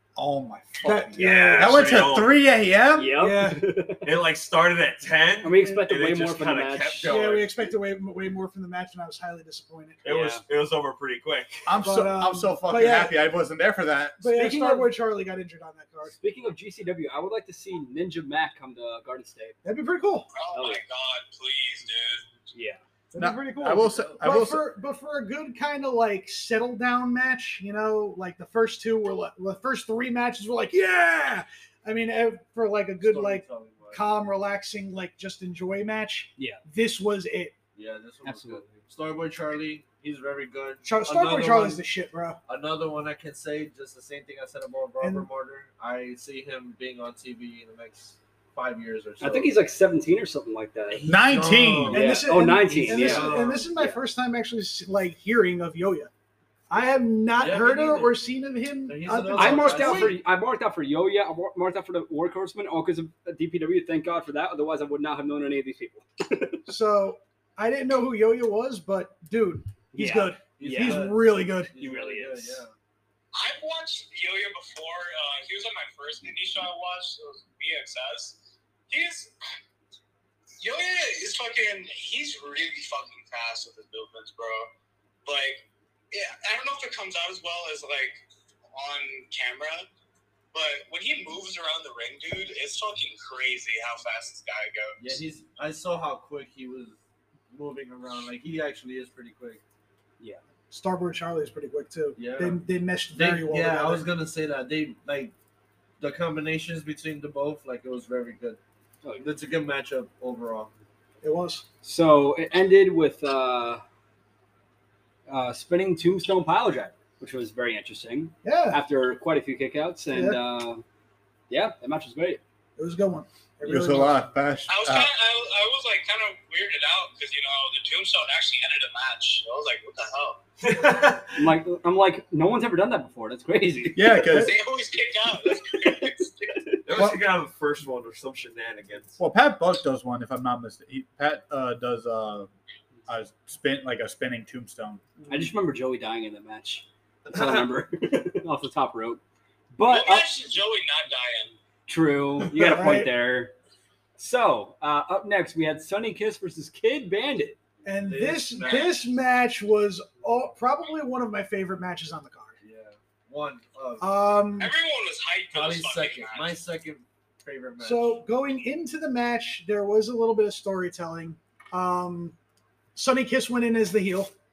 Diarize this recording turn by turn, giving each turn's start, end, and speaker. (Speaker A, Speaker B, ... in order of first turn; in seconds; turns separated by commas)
Speaker A: 0.2-3.1, Speaker B: 0.8-1.7, Speaker C: 1.1-2.0, Speaker D: 1.4-2.3, Speaker C: 2.9-4.1, Speaker B: 3.2-3.6, Speaker D: 4.0-7.8, Speaker C: 5.4-7.2, Speaker B: 7.1-10.1, Speaker D: 10.0-11.8, Speaker C: 10.1-10.4, Speaker A: 11.7-14.5, Speaker B: 11.8-13.2, Speaker B: 14.2-16.2, Speaker C: 14.3-14.9, Speaker C: 16.2-19.6, Speaker B: 19.6-20.3, Speaker E: 20.3-22.3, Speaker C: 20.5-20.8, Speaker C: 22.5-22.8, Speaker B: 23.1-37.5, Speaker A: 23.2-24.7, Speaker F: 23.6-24.3, Speaker F: 33.0-34.1, Speaker C: 36.4-36.6, Speaker F: 37.8-41.8, Speaker C: 38.2-38.8, Speaker B: 40.8-42.4, Speaker F: 42.5-49.5, Speaker B: 45.0-45.3, Speaker C: 49.2-51.0, Speaker F: 50.9-53.7, Speaker A: 51.1-52.1, Speaker C: 51.9-54.0, Speaker B: 51.9-56.1, Speaker B: 56.7-60.2, Speaker F: 57.4-58.2, Speaker F: 58.9-60.2, Speaker C: 59.3-66.6, Speaker B: 66.7-71.8, Speaker C: 69.9-71.1, Speaker F: 70.6-72.8, Speaker C: 71.8-72.6, Speaker E: 73.3-79.3, Speaker E: 80.6-84.7, Speaker E: 85.2-89.9, Speaker E: 90.5-95.0, Speaker F: 95.0-97.0, Speaker F: 97.5-99.6, Speaker B: 100.7-104.1, Speaker F: 102.2-102.6, Speaker F: 103.1-105.3, Speaker F: 106.0-108.6, Speaker F: 109.2-110.7, Speaker B: 111.2-111.7, Speaker C: 111.8-113.8, Speaker C: 115.3-120.8, Speaker B: 118.4-118.8, Speaker B: 120.1-120.4, Speaker C: 121.5-122.4, Speaker B: 122.8-124.2, Speaker A: 123.7-125.1, Speaker E: 124.7-130.4, Speaker D: 130.6-131.6, Speaker C: 131.4-134.2, Speaker A: 133.9-134.6, Speaker E: 134.3-136.6, Speaker D: 136.8-139.2, Speaker A: 136.9-137.2, Speaker A: 139.2-142.5, Speaker A: 143.1-145.1, Speaker C: 145.3-149.2, Speaker C: 149.7-150.3, Speaker E: 149.9-151.6, Speaker C: 151.9-153.5, Speaker B: 152.6-153.1, Speaker C: 154.2-157.6, Speaker B: 157.8-162.6, Speaker F: 158.0-159.1, Speaker F: 162.6-164.1, Speaker B: 164.0-164.8, Speaker E: 164.6-166.6, Speaker F: 165.5-168.2, Speaker B: 167.8-172.4, Speaker B: 172.9-174.3